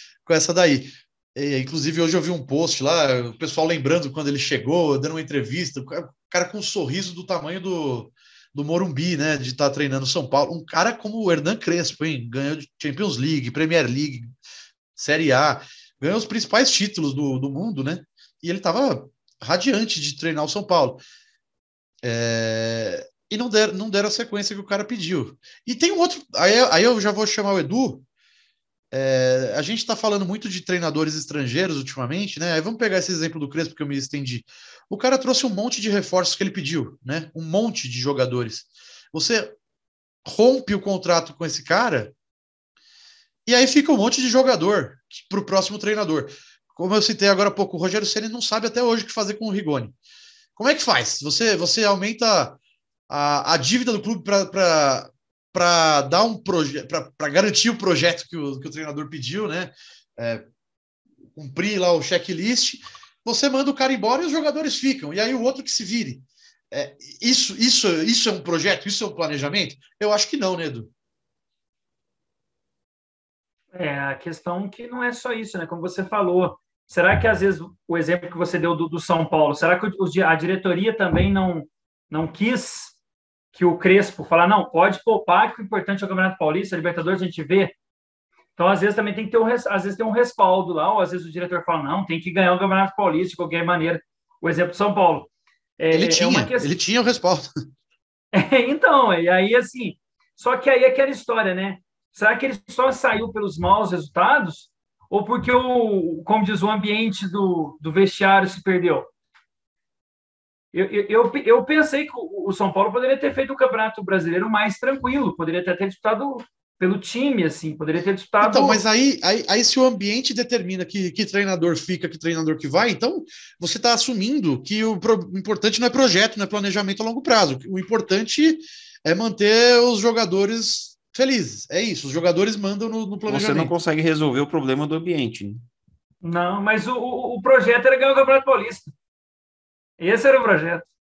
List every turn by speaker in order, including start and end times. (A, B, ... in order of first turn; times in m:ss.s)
0:00.3-0:14.3 A
0:15.0-0:21.0 A
0:22.0-0:28.0 A
0:28.9-0:39.6 A
0:40.2-0:42.1 A
0:43.5-0:49.9 A
0:50.6-1:00.4 A
1:01.4-1:10.9 A
1:13.7-1:23.0 B
1:23.5-1:27.7 B
1:28.6-1:36.7 B
1:35.9-1:37.5 A
1:38.3-1:49.1 B
1:50.7-1:58.8 B
1:58.4-2:13.7 A
2:13.3-2:15.6 C
2:16.2-2:18.9 B
2:20.0-2:20.9 B